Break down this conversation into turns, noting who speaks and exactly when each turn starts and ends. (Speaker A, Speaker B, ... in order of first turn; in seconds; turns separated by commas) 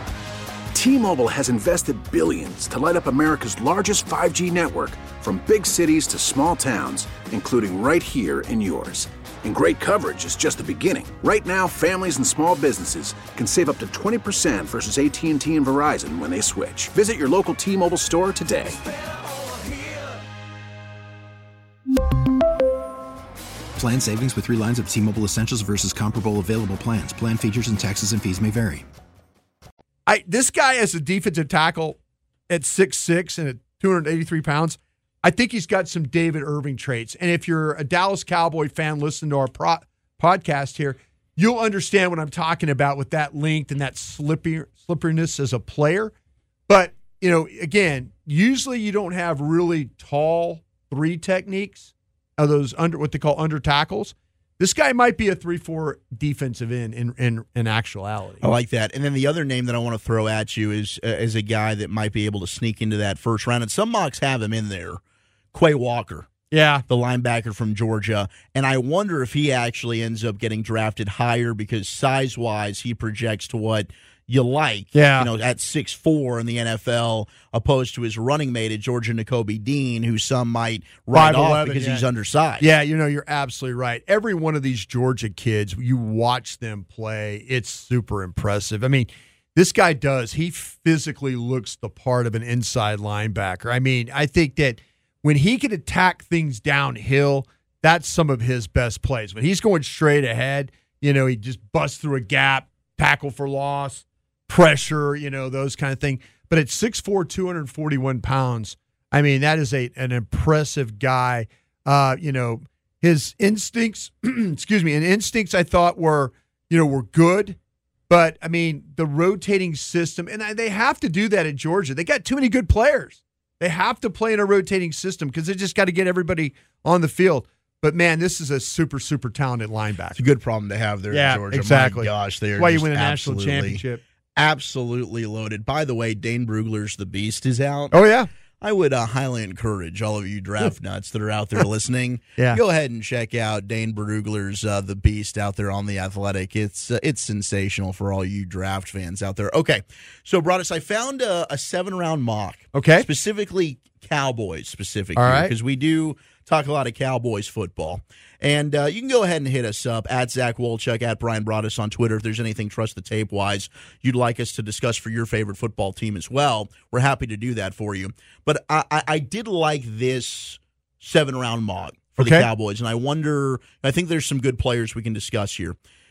Speaker A: 0.7-18.8, Speaker B: 23.8-28.9, Speaker C: 30.1-32.0, Speaker C: 32.5-46.1, Speaker C: 46.7-58.5, Speaker D: 58.4-65.0, Speaker D: 65.5-66.3, Speaker C: 66.5-66.8, Speaker D: 66.9-82.7, Speaker C: 74.9-75.3, Speaker C: 81.1-82.0, Speaker C: 82.6-117.6, Speaker C: 118.1-130.2, Speaker D: 130.1-133.8, Speaker C: 131.1-134.0, Speaker D: 134.3-138.0, Speaker C: 137.9-138.3, Speaker D: 138.6-175.8, Speaker C: 152.7-153.1, Speaker C: 155.2-155.5, Speaker C: 172.2-172.5